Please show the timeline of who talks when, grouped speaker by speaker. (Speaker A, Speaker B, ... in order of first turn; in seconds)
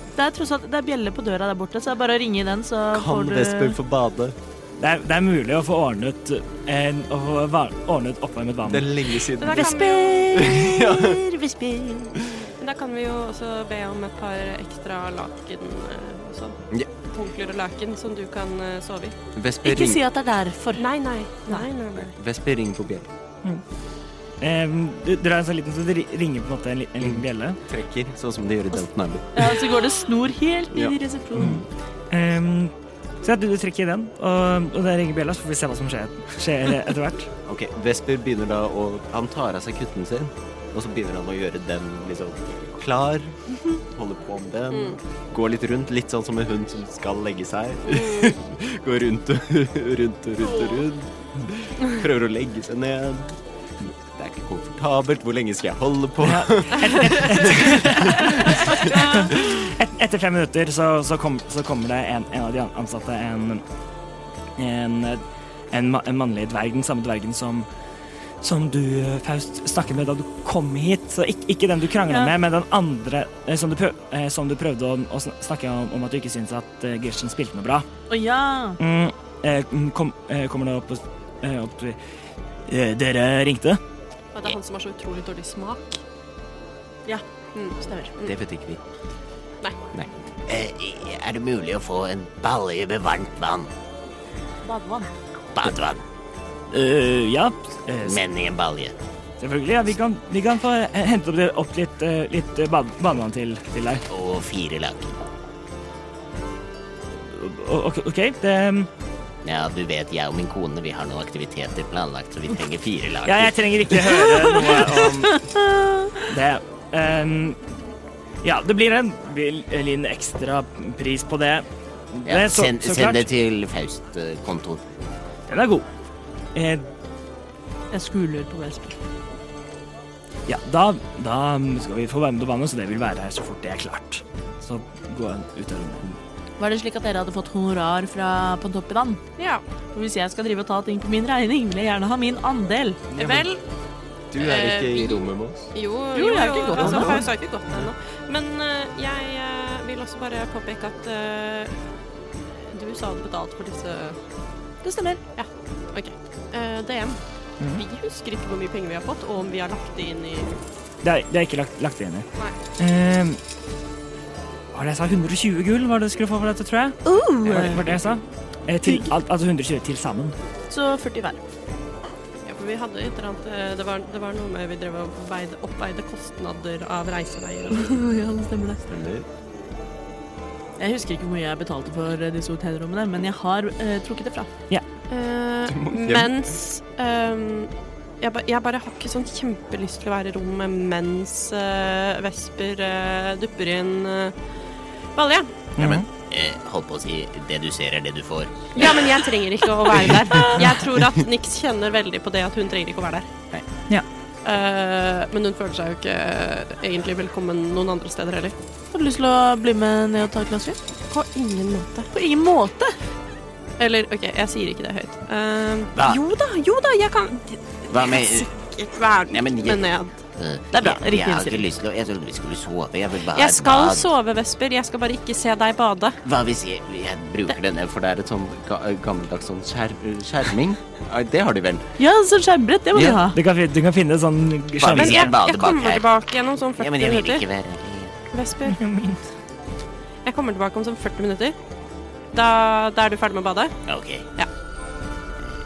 Speaker A: 0.1-3.8, 9.5-12.1, 19.6-20.8, 29.3-31.6, 72.1-72.3, 78.1-78.8, 87.8-88.1, 94.6-95.1, 114.3-116.3, 127.9-129.0, 136.6-139.2, 139.9-143.1, 146.1-147.2, 154.8-155.2, 167.1-167.8, 170.7-171.4, 177.7-178.8, 180.8-184.5, 208.9-210.8, 212.1-212.9, 220.7-221.7, 232.0-233.4
Speaker B: 2.9-4.3, 8.6-9.7, 10.3-11.2, 19.3-20.0, 21.9-23.1, 27.0-29.5, 30.7-31.6, 37.5-53.4, 54.0-59.5, 88.2-88.8, 143.2-143.5, 144.3-145.7, 178.9-179.2, 185.7-186.4, 227.7-231.8, 232.9-233.2
Speaker C: 4.8-8.9, 24.4-27.6, 31.4-37.3, 56.2-63.6, 64.6-67.7, 68.4-77.8, 78.8-82.0, 82.7-83.8, 96.7-98.2, 99.4-104.0, 107.3-108.9, 113.2-115.5, 116.3-117.6, 118.4-123.2, 125.5-125.8, 126.5-126.8, 130.5-136.2, 161.0-162.2, 162.8-163.4, 164.7-170.3, 195.8-196.1, 233.3-235.3, 238.8-239.2
Speaker D: 9.4-10.4, 12.6-19.1, 20.8-22.1, 44.7-45.0, 47.9-48.4, 84.3-86.0, 87.5-88.3, 139.4-139.6, 143.2-143.6, 144.4-151.8, 152.7-154.2, 155.3-157.2, 157.7-160.5, 172.4-178.0, 185.1-194.3, 195.2-195.5, 198.7-203.3, 204.4-208.5, 211.1-212.1, 213.8-220.2, 223.3-226.2, 234.9-237.4, 238.3-238.8, 240.2-241.6, 242.3-243.8
Speaker E: 90.5-93.7, 95.5-96.0, 98.0-98.9, 104.1-105.2, 109.4-114.1, 122.2-124.8, 195.8-199.2, 199.9-200.2, 215.9-216.2, 217.9-218.5, 219.3-224.1, 226.2-227.9, 234.8-236.1, 236.8-238.2, 243.9-244.2